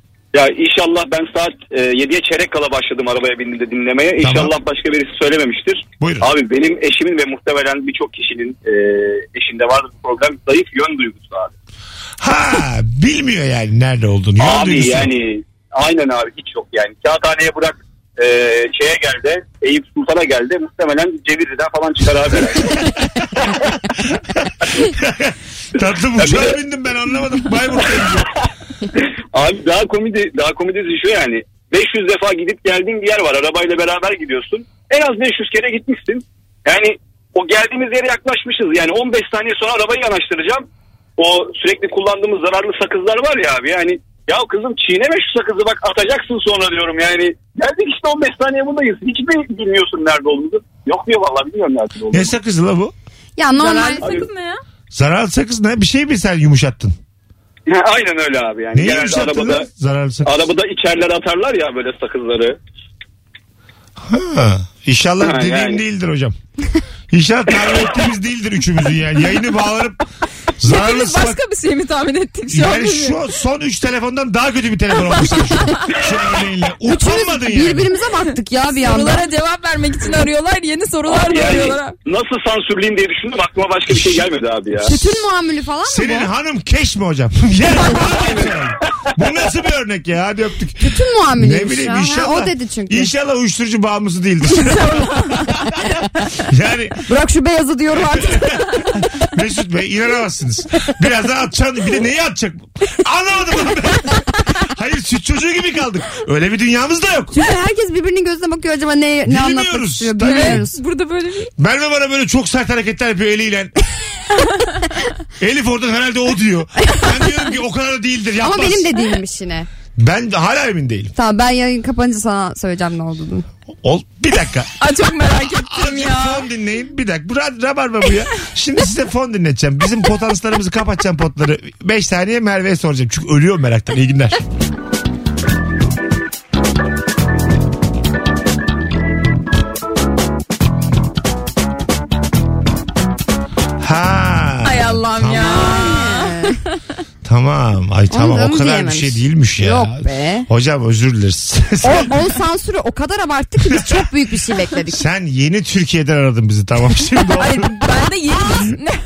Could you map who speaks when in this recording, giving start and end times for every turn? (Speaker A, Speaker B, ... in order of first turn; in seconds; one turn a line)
Speaker A: 0.3-11.5
Speaker B: 4.2-4.5
Speaker B: 6.0-6.3
Speaker B: 12.2-15.1
Speaker A: 14.4-22.9
Speaker B: 24.4-28.3
Speaker A: 26.2-26.6
Speaker A: 29.3-40.7
Speaker A: 41.2-52.3
Speaker B: 52.1-52.9
Speaker C: 53.4-54.2
Speaker D: 53.6-54.6
Speaker B: 54.9-57.0
Speaker A: 57.7-59.7
Speaker B: 58.7-60.4
Speaker A: 60.2-62.6
Speaker B: 64.0-66.4
Speaker A: 65.2-65.8
Speaker B: 67.1-70.0
Speaker B: 70.6-71.4
Speaker D: 70.7-73.2
Speaker B: 72.5-77.9
Speaker C: 76.9-79.2
Speaker D: 78.7-81.9
Speaker A: 81.1-85.0
Speaker C: 84.8-86.3
Speaker B: 85.9-95.5
Speaker A: 88.2-88.5
Speaker C: 90.8-93.1
Speaker B: 96.4-97.0
Speaker C: 97.1-98.9
Speaker B: 98.1-107.4
Speaker C: 107.3-110.8
Speaker B: 109.3-110.7
Speaker D: 110.2-111.5
Speaker B: 111.6-113.7
Speaker B: 115.4-118.9
Speaker C: 118.4-119.7
Speaker B: 120.0-121.1
Speaker C: 121.2-123.5
Speaker B: 123.8-124.8
Speaker D: 124.8-126.4
Speaker B: 125.6-134.4
Speaker B: 143.8-145.6
Speaker D: 144.6-146.3
Speaker C: 145.3-146.6
Speaker B: 147.2-152.2
Speaker C: 148.1-150.5
Speaker C: 151.8-155.0
Speaker B: 153.7-154.1
Speaker B: 154.9-158.6
Speaker D: 157.4-158.9